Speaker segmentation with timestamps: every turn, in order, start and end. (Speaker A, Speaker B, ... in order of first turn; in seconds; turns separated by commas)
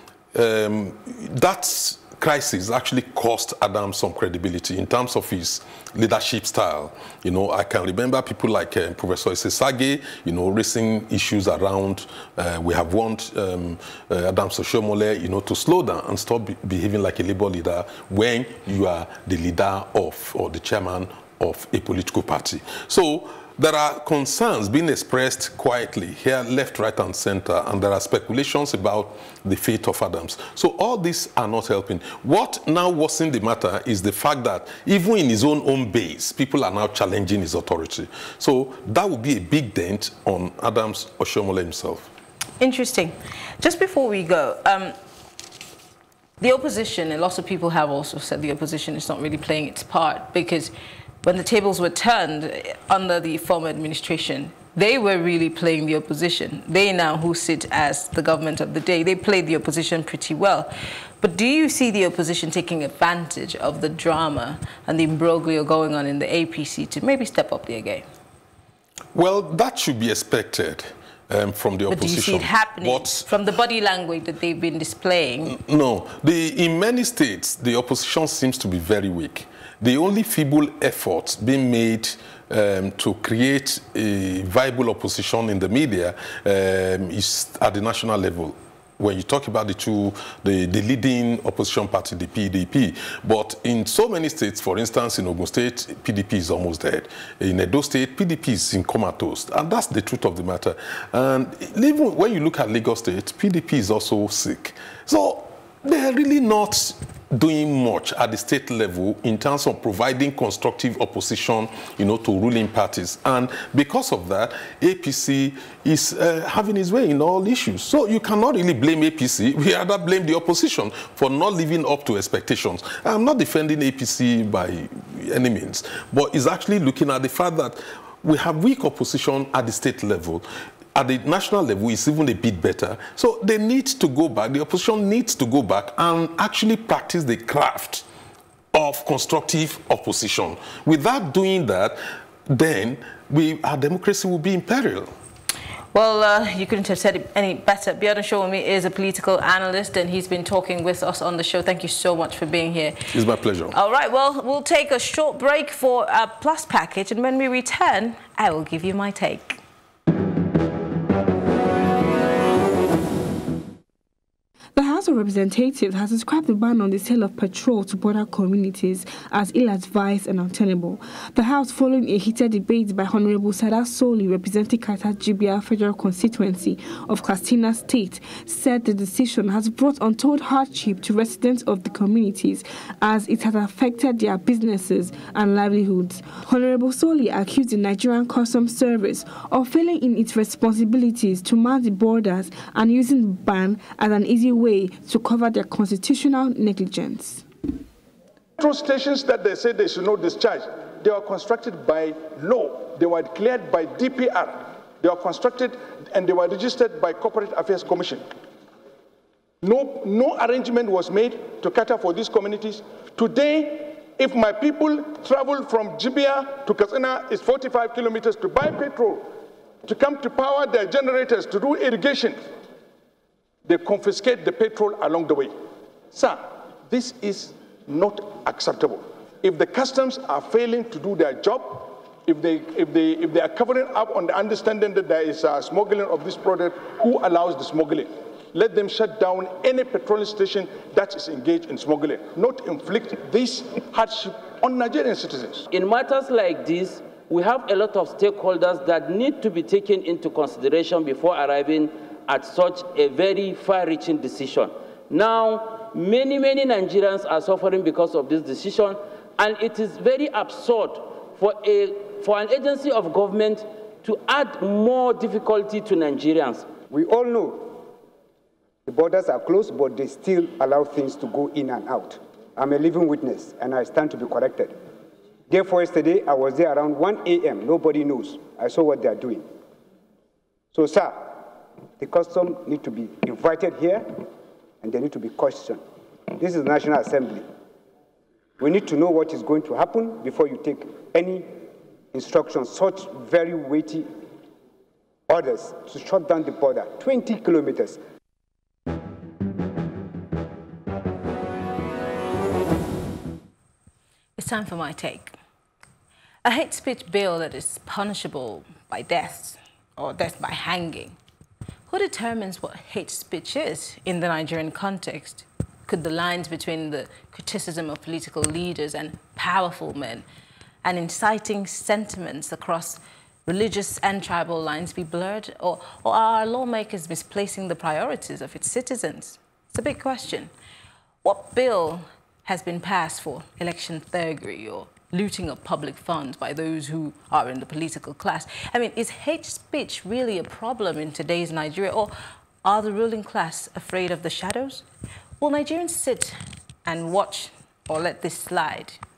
Speaker A: 0.3-42.1, Speaker B: 42.6-44.9, Speaker B: 46.4-68.0, Speaker A: 69.1-73.3, Speaker B: 71.9-75.5, Speaker A: 75.5-138.0, Speaker A: 138.7-142.0, Speaker A: 142.5-145.1, Speaker B: 145.9-153.0, Speaker A: 153.1-153.7, Speaker B: 153.7-159.6, Speaker C: 164.7-197.4, Speaker D: 198.6-208.2, Speaker D: 209.6-219.2, Speaker D: 219.8-222.3, Speaker D: 223.6-225.5, Speaker D: 226.1-245.7, Speaker E: 245.7-266.7, Speaker F: 266.9-267.8, Speaker F: 268.9-274.7, Speaker F: 275.5-279.4, Speaker F: 280.7-281.4, Speaker F: 282.0-284.2, Speaker F: 284.8-285.8, Speaker F: 286.3-287.4, Speaker F: 288.6-291.5, Speaker F: 292.1-294.1, Speaker F: 295.3-298.0, Speaker B: 304.4-305.3, Speaker B: 306.4-311.2, Speaker B: 311.9-320.2, Speaker B: 320.8-330.5, Speaker B: 331.2-342.1, Speaker B: 342.6-344.8, Speaker B: 345.4-349.0